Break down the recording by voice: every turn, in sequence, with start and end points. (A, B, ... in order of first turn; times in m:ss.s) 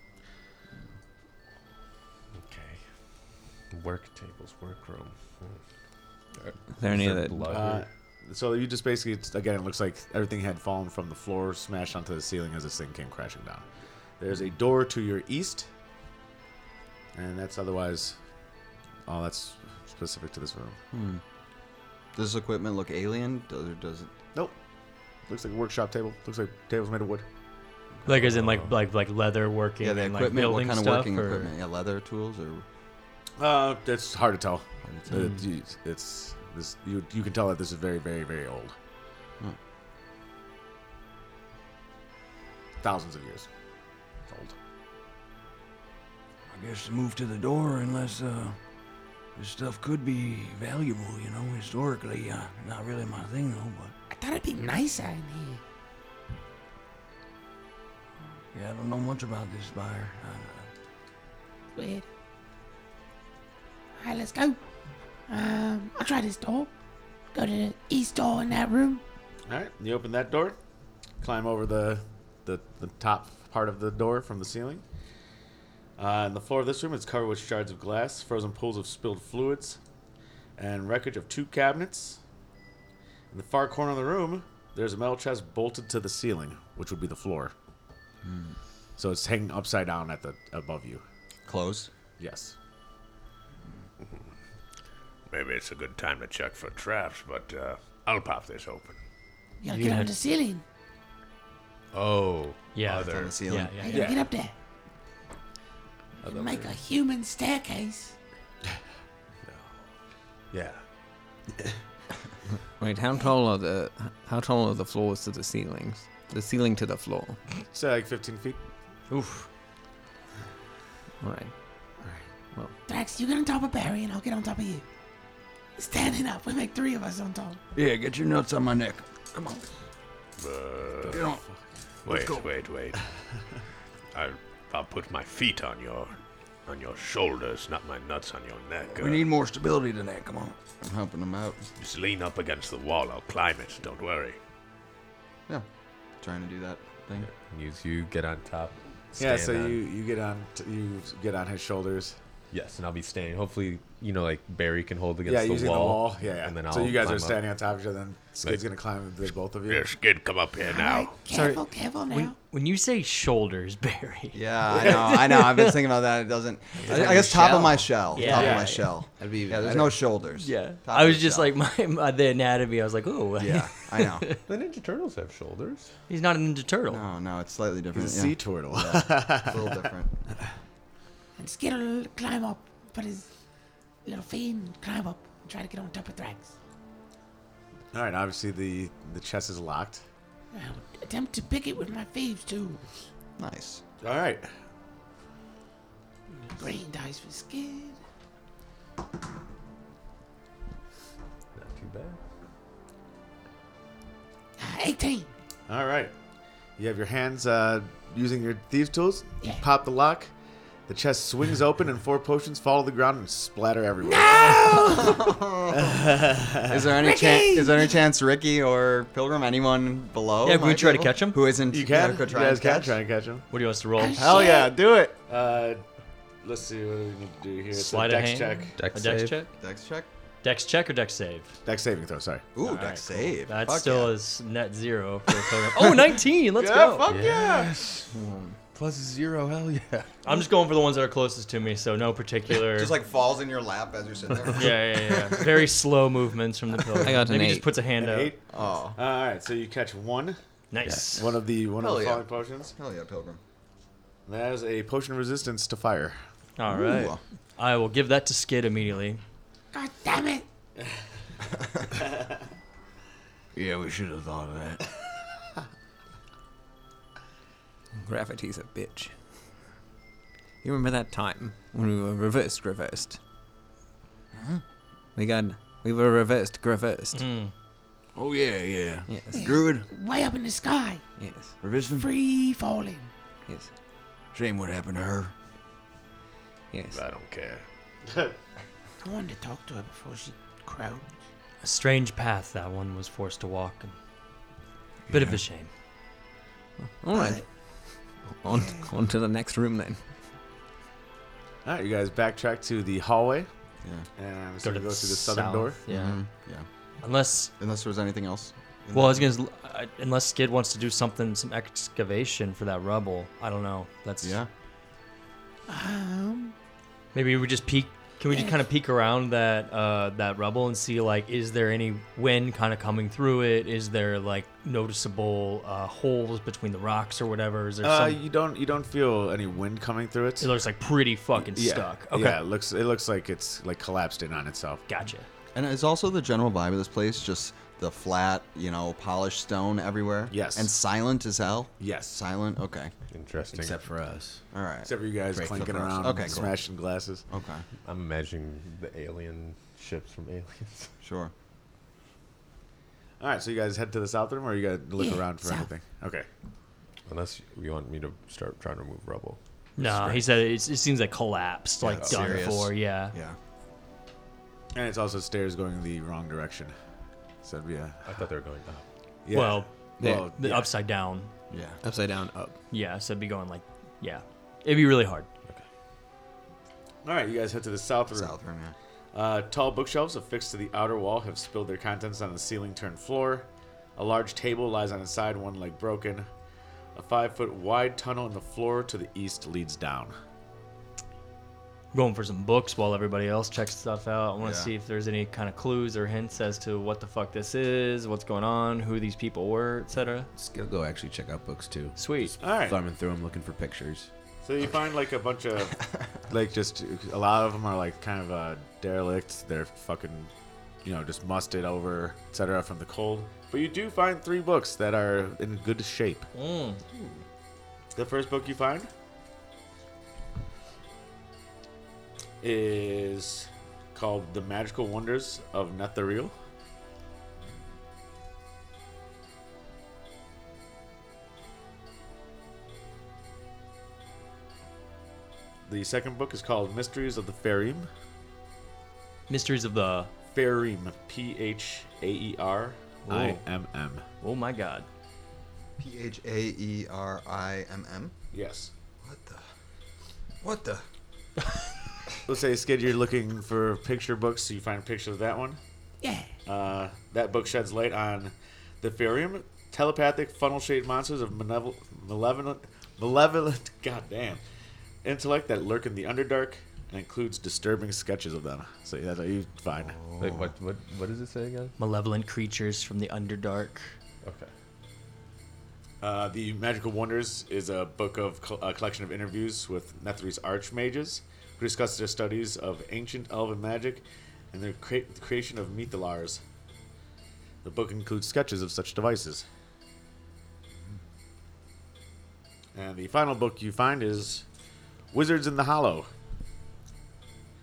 0:02.4-0:02.8 A
0:03.7-0:05.6 A
0:06.4-0:07.8 A
0:06.7-0:07.6 B
0:07.4-0:13.6 C
0:14.2-0:15.7 C
0:17.1-0:18.2 C
0:19.0-0:20.8 C
0:20.9-0:21.2 D
0:22.1-0:24.1 D
0:25.3-0:27.2 C
0:28.0-0:31.5 E
0:28.2-0:28.7 A
0:29.8-0:32.6 D
0:33.4-0:38.7 C
0:34.8-0:35.3 D
0:42.8-0:43.5 C
0:44.3-0:44.6 C
0:46.5-0:48.6 F
0:49.3-0:53.9 F
0:54.1-0:55.6 G
0:58.5-1:00.7 F
1:01.7-1:02.0 G
1:04.0-1:04.6 G
1:05.3-1:06.7 G
1:07.3-1:09.0 G
1:09.5-1:10.6 C
1:11.2-1:14.8 C
1:16.0-1:19.8 C
1:20.6-1:22.2 C
1:23.3-1:27.5 C
1:28.2-1:28.6 D
1:29.0-1:31.0 C
1:31.5-1:31.9 D
1:32.2-1:32.5 C
1:35.3-1:39.0 H
1:39.6-1:40.6 G
1:39.7-1:40.1 E
1:41.9-1:43.4 A
1:42.7-1:44.1 E
1:42.9-1:43.9 D
1:43.8-1:44.5 G
1:43.9-1:44.3 C
1:46.2-1:46.8 A
1:46.2-1:48.1 G
1:49.4-1:49.8 A
1:50.5-1:50.8 A
1:52.8-1:57.4 B
1:57.7-1:58.6 C
1:59.1-1:59.5 E
2:01.2-2:01.5 B
2:02.9-2:04.8 G
2:05.8-2:07.6 G
2:07.7-2:09.7 F
2:10.4-2:11.2 H
2:11.1-2:11.4 F
2:11.1-2:11.6 C
2:12.0-2:13.0 H
2:12.0-2:12.5 F
2:14.1-2:19.3 H
2:18.9-2:20.6 F
2:20.8-2:21.6 D
2:21.8-2:24.4 H
2:26.2-2:27.3 D
2:27.2-2:29.8 A
2:29.2-2:32.2 C
2:32.5-2:37.4 A
2:35.2-2:39.9 C
2:39.7-2:41.2 H
2:40.6-2:42.3 G
2:41.3-2:45.9 E
2:44.3-2:51.5 D
2:46.8-2:48.5 I
2:48.1-2:48.9 E
2:48.2-2:48.7 C
2:49.1-2:50.0 I
2:50.4-2:54.4 E
2:53.4-2:54.3 D
2:54.5-2:55.9 A
2:56.1-2:57.0 E
2:56.9-3:00.2 D
2:57.9-2:59.9 C
3:01.4-3:03.3 G
3:04.0-3:06.5 G
3:07.9-3:10.0 C
3:10.5-3:12.8 G
3:13.4-3:13.8 D
3:14.0-3:14.5 C
3:16.4-3:18.0 G
3:21.5-3:22.2 A
3:24.6-3:25.3 G
3:25.7-3:26.1 C
3:26.8-3:30.3 C
3:30.9-3:34.8 C
3:34.0-3:35.4 G
3:34.2-3:36.0 D
3:35.7-3:36.8 C
3:36.7-3:43.0 D
3:37.0-3:38.0 G
3:40.4-3:41.4 E
3:41.7-3:43.4 C
3:43.5-3:44.4 E
3:44.0-3:44.7 G
3:44.2-3:45.1 D
3:45.3-3:45.8 C
3:46.4-3:48.8 C
3:47.7-3:49.5 E
3:48.8-3:49.4 A
3:49.6-3:50.1 D
3:50.4-3:51.6 E
3:51.6-3:53.0 C
3:52.5-3:54.1 D
3:53.4-3:57.1 E
3:56.6-3:57.7 D
3:57.0-3:58.0 A
3:58.1-3:58.6 B
3:58.7-4:00.1 A
4:00.2-4:02.9 E
4:02.5-4:05.7 D
4:04.5-4:08.3 E
4:07.0-4:07.7 B
4:08.0-4:10.4 C
4:08.5-4:09.0 D
4:10.7-4:11.3 E
4:11.1-4:12.7 C
4:11.8-4:12.2 D
4:12.8-4:13.4 D
4:14.3-4:16.2 C
4:16.6-4:19.2 E
4:16.7-4:17.2 D
4:19.7-4:20.4 G
4:23.5-4:24.8 F
4:28.0-4:29.1 B
4:30.6-4:33.2 B
4:35.2-4:37.2 B
4:37.1-4:37.5 E
4:38.1-4:39.9 F
4:39.1-4:39.4 B
4:39.3-4:41.0 G
4:41.2-4:41.6 B
4:41.6-4:42.1 F
4:41.9-4:43.1 G
4:44.3-4:45.3 F
4:46.7-4:47.0 B
4:46.9-4:47.6 H
4:48.1-4:48.3 C
4:49.0-4:51.1 G
4:51.6-4:53.9 E
4:55.1-4:55.4 F
4:55.1-4:55.7 E
4:57.0-5:00.0 B
4:57.1-4:57.4 G
4:58.5-4:58.8 G
5:01.6-5:03.5 C
5:04.2-5:05.8 C
5:04.6-5:06.2 E
5:05.9-5:06.6 D
5:07.0-5:07.5 E
5:07.6-5:09.3 D
5:08.9-5:14.4 E
5:14.2-5:14.5 D
5:15.7-5:16.5 G
5:17.1-5:28.2 E
5:27.8-5:30.5 C
5:30.4-5:32.4 E
5:31.4-5:34.8 C
5:34.9-5:35.3 E
5:35.5-5:42.9 D
5:40.3-5:40.7 C
5:41.8-5:42.2 C
5:43.1-5:43.8 A
5:43.5-5:44.4 I
5:44.5-5:44.9 D
5:44.8-5:47.2 C
5:45.3-5:46.5 I
5:45.6-5:46.5 D
5:47.3-5:47.6 D
5:47.8-5:50.9 A
5:51.0-5:51.3 D
5:53.2-5:56.2 C
5:55.0-5:55.7 G
5:57.0-6:00.3 A
5:59.8-6:03.1 E
6:01.8-6:03.4 D
6:04.7-6:06.7 C
6:07.4-6:08.1 C
6:08.0-6:08.8 A
6:09.2-6:10.7 C
6:09.3-6:11.3 E
6:10.0-6:10.3 B
6:11.5-6:11.8 D
6:11.8-6:12.6 B
6:12.7-6:15.3 E
6:17.0-6:18.4 C
6:18.1-6:18.7 D
6:19.1-6:26.3 C
6:26.9-6:30.1 C
6:31.9-6:40.3 E
6:34.4-6:34.7 D
6:40.3-6:44.1 I
6:42.0-6:42.3 E
6:42.4-6:42.8 C
6:44.4-6:50.3 C
6:50.8-6:56.3 C
6:56.3-6:56.8 E
6:56.9-6:57.2 D
6:57.9-6:58.9 C
7:02.4-7:06.3 C
7:15.7-7:17.9 C
7:19.3-7:20.1 E
7:20.3-7:24.0 C
7:23.0-7:23.4 E
7:24.2-7:24.9 E
7:25.8-7:28.1 D
7:28.3-7:28.7 C
7:29.0-7:29.4 D
7:30.4-7:30.8 D
7:32.2-7:35.6 C
7:36.0-7:36.3 G
7:36.4-7:44.4 C
7:45.0-7:50.0 C
7:50.0-7:50.4 D
7:50.2-7:51.7 A
7:51.8-7:54.0 E
7:54.2-7:54.5 A
7:56.0-8:06.4 C
8:07.6-8:09.4 C
8:12.7-8:14.4 C
8:15.1-8:16.1 C